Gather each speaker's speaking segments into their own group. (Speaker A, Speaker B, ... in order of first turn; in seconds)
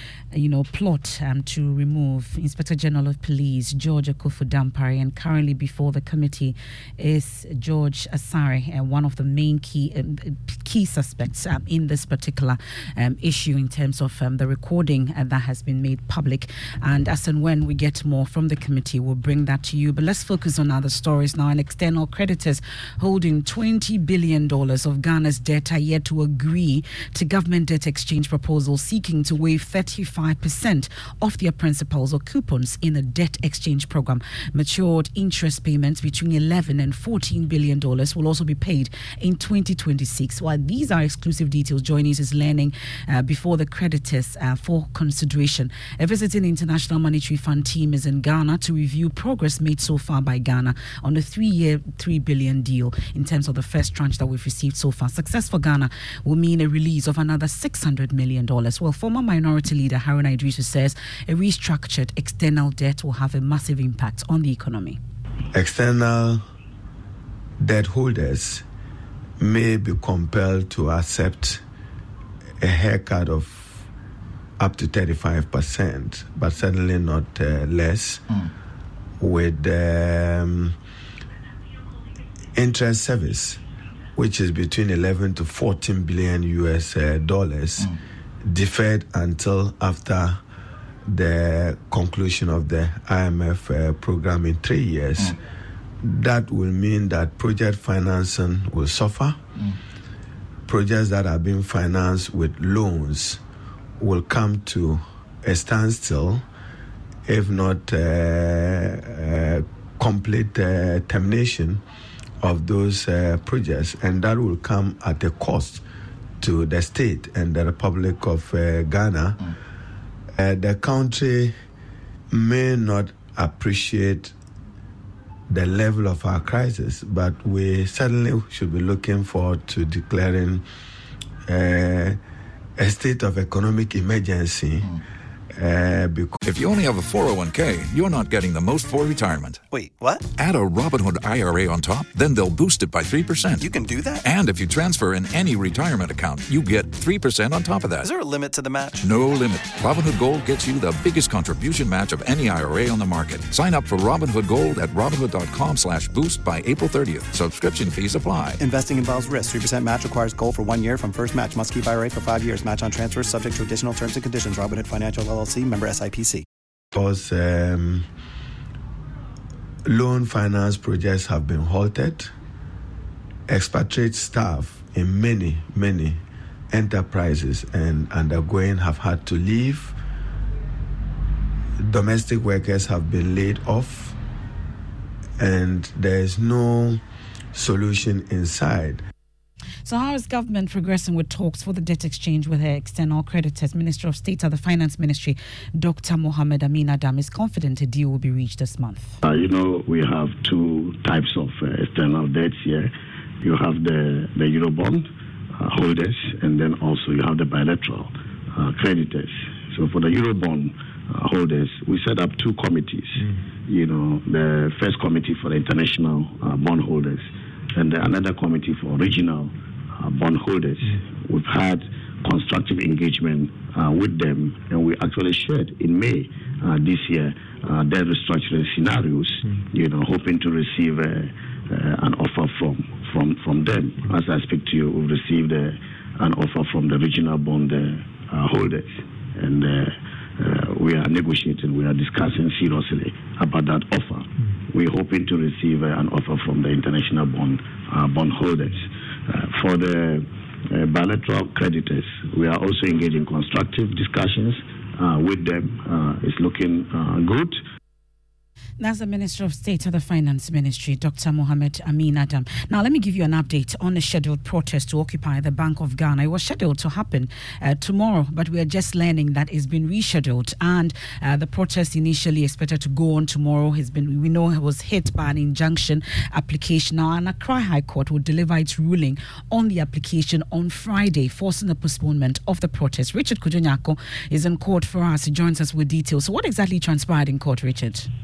Speaker A: 0.3-65.0, 189.8-199.2, 258.8-288.1
Speaker B: 65.5-66.4, 67.6-68.6, 69.4-71.6, 72.6-73.8, 74.6-78.2, 79.2-80.8, 82.5-83.6, 84.1-90.4, 91.1-95.4, 96.0-99.4, 100.7-103.4, 104.0-106.4, 107.2-111.8, 112.4-115.8, 116.4-119.5, 120.3-121.6, 122.3-124.3, 125.5-130.6, 131.5-132.2, 132.8-134.9, 135.5-136.4, 166.9-168.1, 169.8-172.3, 173.5-176.2, 176.7-179.9, 181.8-184.2, 185.4-187.0, 187.5-189.0
Speaker C: 136.4-139.6, 140.4-143.7, 144.2-148.1, 149.0-158.6
Speaker D: 139.7-140.2, 143.6-144.2, 148.0-149.1, 158.6-166.4
Speaker E: 199.2-257.6